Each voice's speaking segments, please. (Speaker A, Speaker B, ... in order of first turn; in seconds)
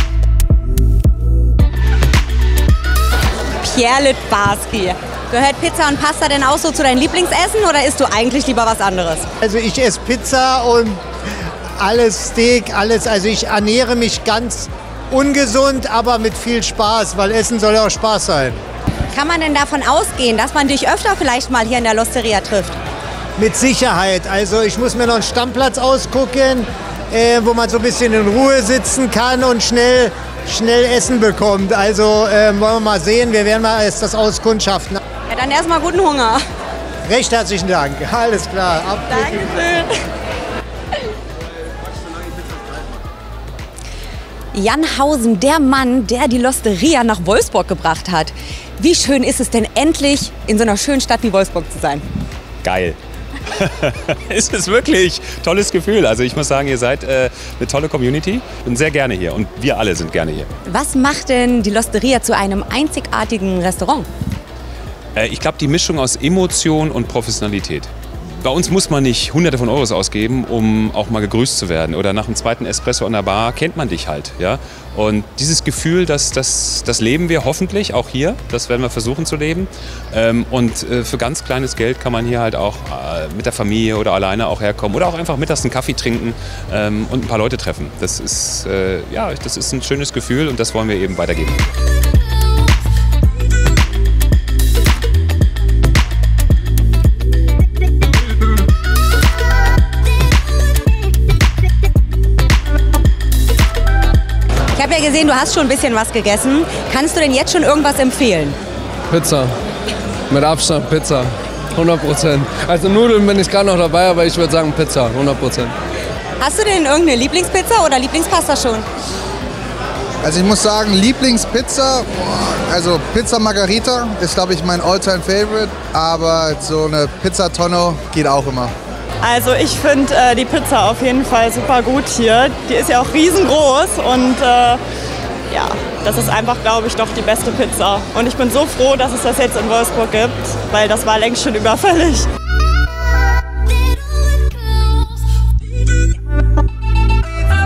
Speaker A: 3.6-9.3, 19.1-22.8, 35.3-36.4, 39.1-39.9, 44.5-52.0, 60.7-64.1, 104.7-108.6, 116.4-118.9
Speaker B: 9.4-11.0, 11.8-18.6, 23.4-35.0, 37.1-39.4
Speaker C: 52.6-53.0, 53.5-60.5, 65.1-91.6
Speaker D: 109.1-109.5, 110.3-115.8
Speaker E: 120.2-128.7
Speaker F: 129.2-134.8, 135.7-142.3